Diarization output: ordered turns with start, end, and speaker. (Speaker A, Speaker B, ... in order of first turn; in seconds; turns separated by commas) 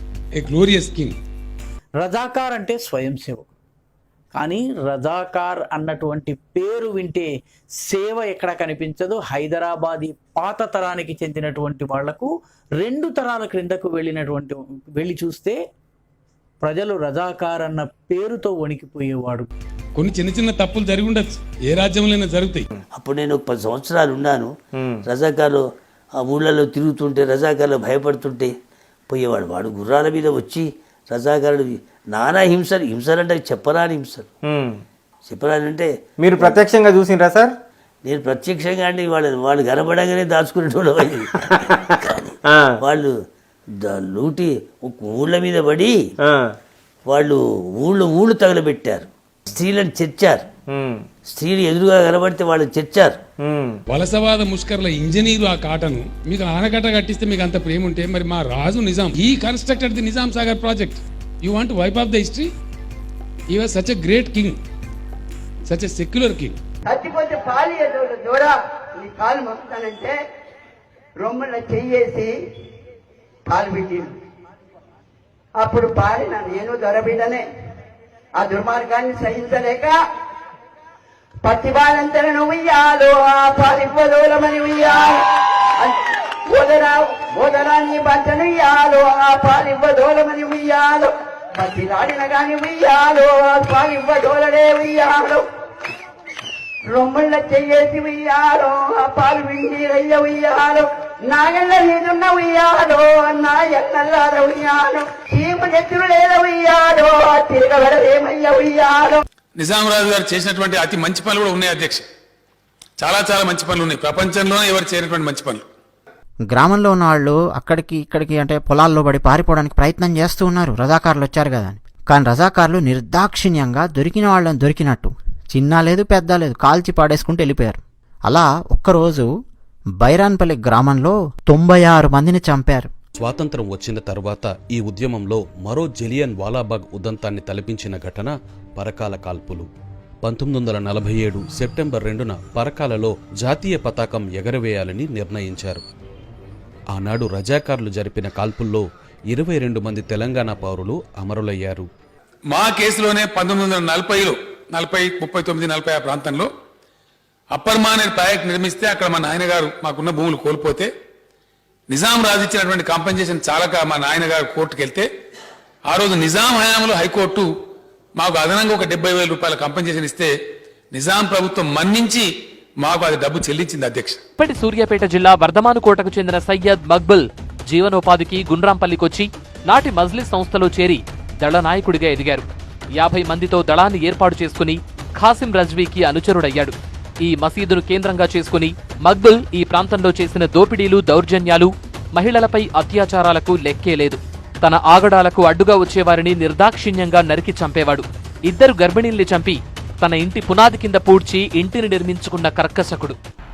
Speaker A: 0.3-1.2, Speaker B: 2.0-3.5, Speaker B: 4.3-7.3, Speaker B: 7.8-15.6, Speaker B: 16.6-19.5, Speaker A: 19.9-22.7, Speaker C: 22.9-24.5, Speaker D: 24.8-25.1, Speaker C: 25.1-25.6, Speaker C: 26.2-28.5, Speaker C: 29.1-34.3, Speaker D: 34.5-34.8, Speaker C: 35.3-36.6, Speaker D: 36.2-37.5, Speaker C: 38.0-41.3, Speaker D: 42.5-42.9, Speaker C: 42.8-43.1, Speaker C: 43.8-46.0, Speaker D: 46.2-46.5, Speaker C: 47.1-50.5, Speaker D: 50.7-51.0, Speaker C: 51.3-53.2, Speaker D: 53.4-53.8, Speaker A: 53.9-62.5, Speaker A: 63.5-64.6, Speaker A: 65.7-66.6, Speaker E: 66.8-70.2, Speaker E: 71.2-72.3, Speaker E: 73.5-74.1, Speaker E: 75.6-77.4, Speaker E: 78.4-80.0, Speaker E: 81.4-85.2, Speaker E: 86.5-95.4, Speaker E: 96.9-109.2, Speaker A: 109.6-112.1, Speaker A: 113.0-115.7, Speaker F: 116.5-129.3, Speaker F: 130.0-132.9, Speaker G: 133.2-139.7, Speaker G: 140.2-145.8, Speaker G: 146.9-151.9, Speaker A: 152.5-156.5, Speaker A: 157.5-160.9, Speaker A: 161.9-165.1, Speaker A: 165.9-167.5, Speaker A: 168.2-170.3, Speaker A: 170.9-172.3, Speaker A: 172.8-174.2, Speaker H: 174.4-182.4, Speaker H: 183.0-203.2